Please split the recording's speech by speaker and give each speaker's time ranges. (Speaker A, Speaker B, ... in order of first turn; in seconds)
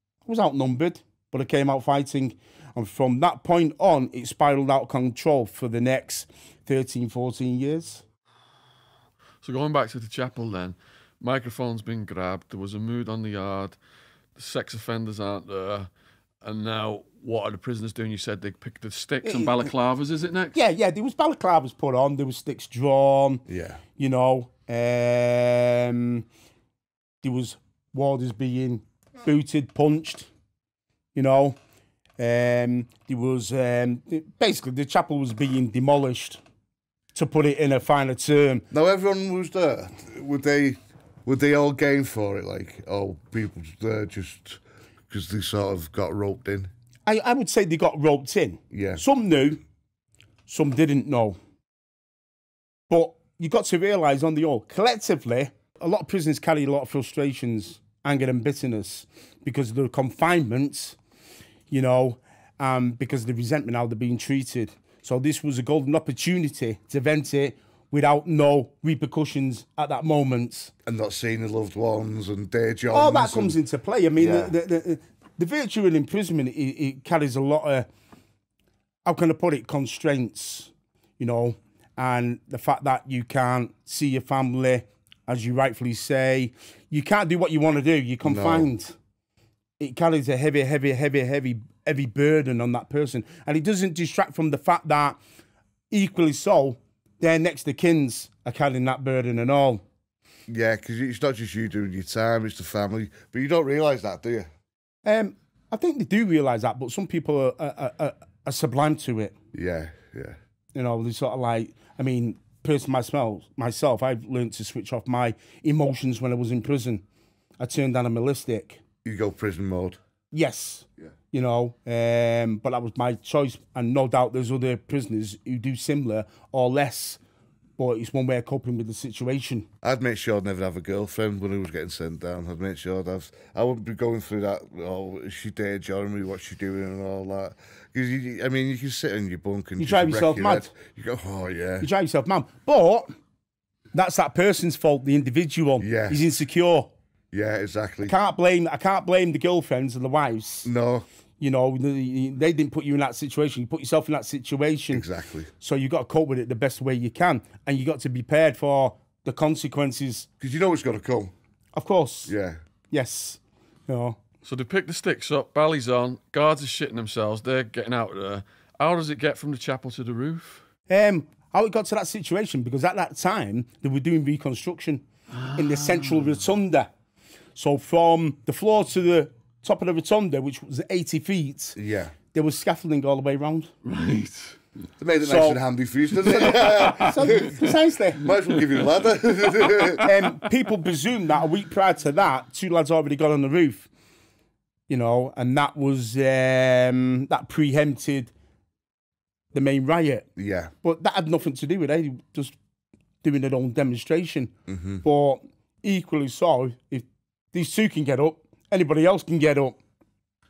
Speaker A: 0.2-8.0, 19.2-19.7, 20.5-23.4, 23.9-26.2, 27.2-30.3, 31.1-31.6, 32.2-36.4, 37.1-38.6, 47.1-49.6, 50.5-51.4, 52.9-61.0, 61.7-70.7, 72.9-77.9, 79.0-89.0, 89.8-95.2, 95.9-99.8, 105.0-109.4, 110.7-117.0, 117.6-118.8, 120.3-127.2, 127.8-129.7, 139.8-140.7, 141.8-143.1, 143.9-146.9, 148.0-150.7, 151.4-155.1, 155.6-160.3, 161.7-162.3, 162.9-164.2, 170.9-176.9, 177.5-181.8, 182.3-183.7, 185.2-185.6, 186.2-188.3, 190.0-193.9, 194.9-198.3, 199.5-202.6, 203.2-209.8
Speaker B: 9.4-13.8, 14.3-15.9, 16.4-20.6, 164.4-170.6, 175.7-176.3, 183.8-184.6, 186.7-187.5, 189.7-190.1
Speaker C: 23.5-23.8, 38.7-46.7, 48.7-49.0, 70.9-73.6, 74.2-74.5, 88.2-88.7, 100.5-104.5, 109.5-110.4, 119.0-120.0, 129.8-141.9, 145.8-146.2, 147.3-148.1, 150.6-151.1, 154.9-155.5, 160.4-161.3, 162.3-162.6, 181.8-182.1, 185.0-187.7, 188.2-190.1, 200.4-200.7, 204.7-205.0